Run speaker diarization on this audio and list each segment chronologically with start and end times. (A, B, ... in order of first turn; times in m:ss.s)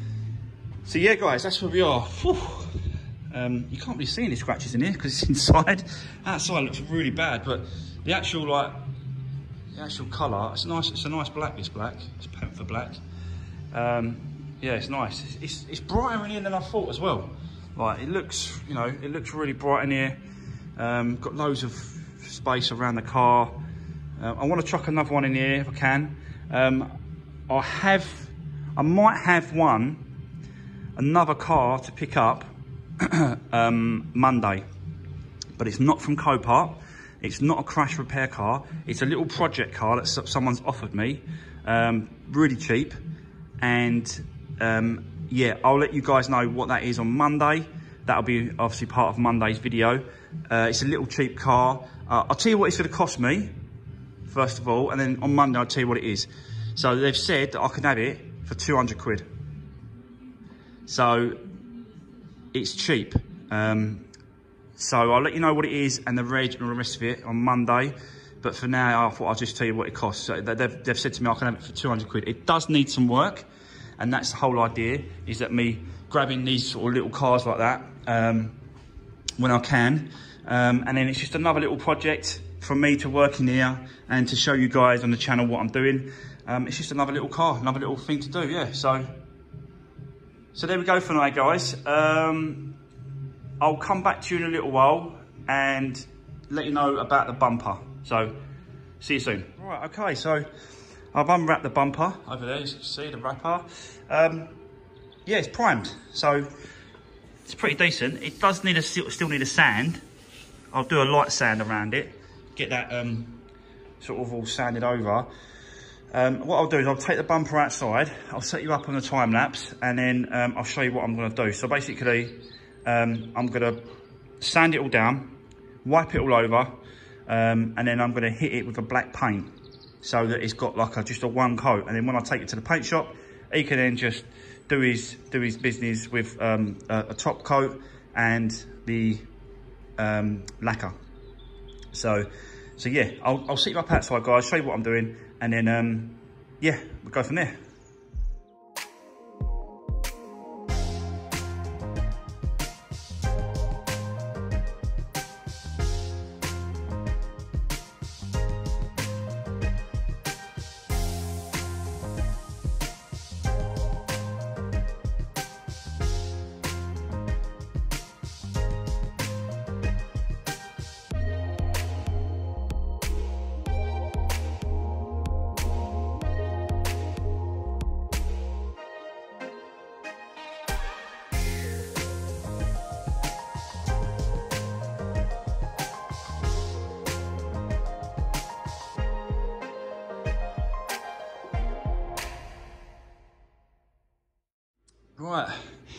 0:00.8-0:08.8 A
0:09.7-0:13.0 A
0:13.7-0:20.2 A
0:20.8-0:23.6 A
0:24.2-0:26.9 A
0:27.5-0:30.1 A
0:31.0-0:34.6 A
0:35.6-0:43.0 A
0:43.6-0:53.5 A
0:54.3-0:59.3 A
1:00.9-1:01.4 A
1:02.5-1:04.1 A
1:04.8-1:13.5 A
1:14.0-1:18.6 A
1:19.4-1:29.1 A
1:30.5-1:32.8 A
1:33.6-1:38.4 A
1:39.0-1:40.5 A
1:41.1-1:44.6 A
1:45.2-1:46.5 A
1:47.4-1:50.0 A
1:50.7-1:53.4 A
1:54.0-1:55.3 A
1:56.1-2:03.8 A
2:04.4-2:06.7 A
2:07.3-2:19.3 A
2:20.0-2:20.9 A
2:21.9-2:27.6 A
3:15.2-3:15.7 A